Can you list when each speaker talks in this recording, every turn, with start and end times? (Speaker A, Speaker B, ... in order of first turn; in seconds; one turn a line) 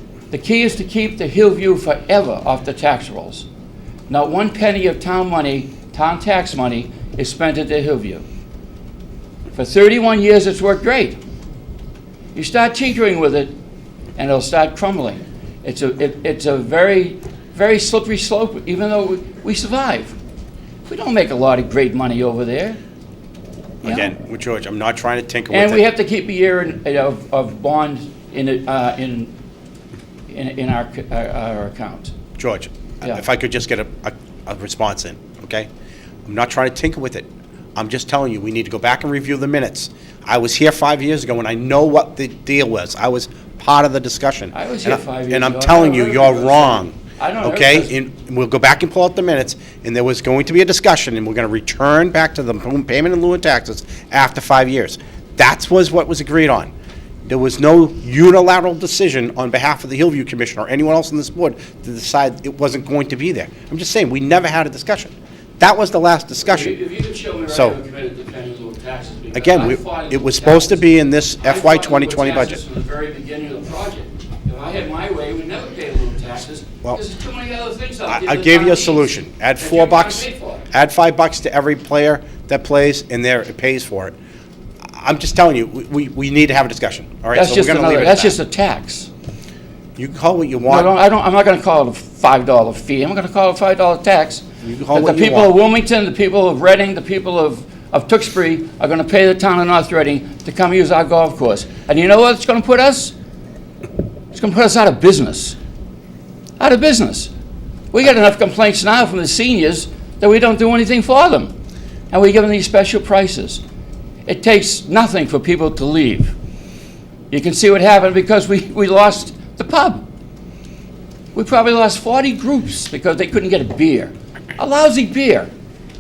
Speaker A: 0.3-3.5
Speaker A: 4.1-8.2
Speaker A: 9.5-11.2
Speaker A: 12.3-13.5
Speaker A: 14.2-20.2
Speaker A: 20.9-22.8
Speaker B: 23.8-25.8
Speaker A: 23.8-24.1
Speaker A: 25.5-29.3
Speaker A: 30.3-32.1
Speaker B: 32.4-35.7
Speaker B: 36.2-56.7
Speaker A: 44.5-47.9
Speaker B: 57.2-66.8
Speaker A: 66.4-70.9
Speaker B: 67.5-67.8
Speaker B: 69.3-72.6
Speaker A: 71.4-80.6
Speaker B: 78.1-84.2
Speaker B: 84.9-88.4
Speaker A: 87.3-89.1
Speaker B: 90.0-90.9
Speaker A: 90.7-103.2
Speaker B: 94.6-95.5
Speaker A: 104.3-105.6
Speaker A: 106.6-107.3
Speaker A: 107.9-111.5
Speaker A: 112.1-113.6
Speaker A: 114.3-116.3
Speaker A: 117.3-120.1
Speaker A: 121.3-125.5